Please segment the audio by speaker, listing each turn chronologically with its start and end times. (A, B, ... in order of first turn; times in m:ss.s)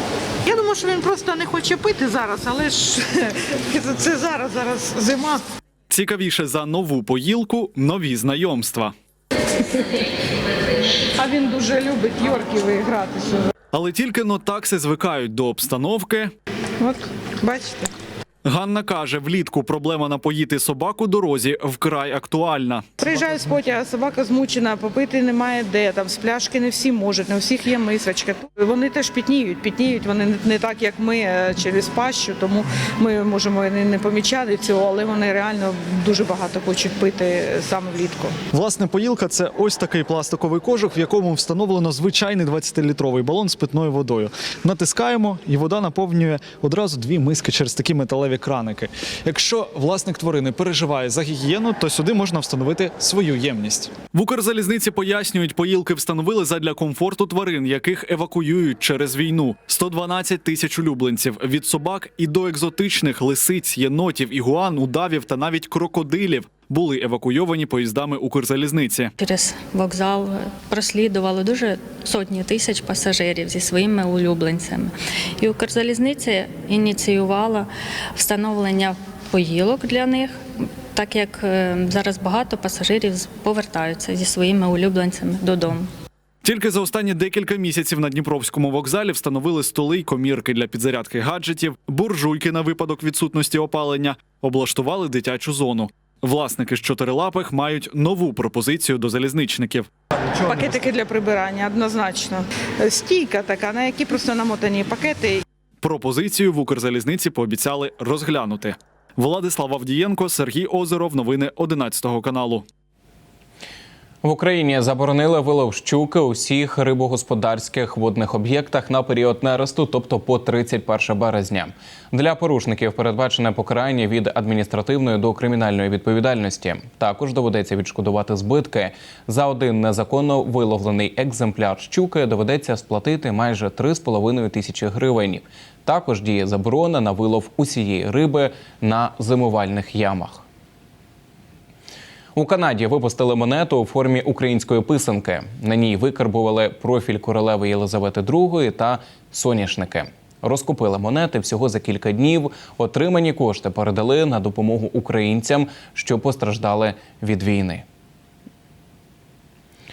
0:00.4-0:05.4 A
0:05.9-0:08.9 B
0:11.2-0:13.5 A
0:13.7-0:16.3 B
0:16.8-0:17.9 A
0:18.4-0:22.9 B
0:23.0-0:38.4 A
0:38.5-1:09.1 B
1:09.2-1:20.4 C
1:20.9-1:25.9 C
1:26.4-1:39.9 B
1:40.4-1:40.8 B
1:40.5-1:45.4 A
1:45.8-1:52.6 B
1:54.2-2:20.4 D
2:22.4-2:37.8 D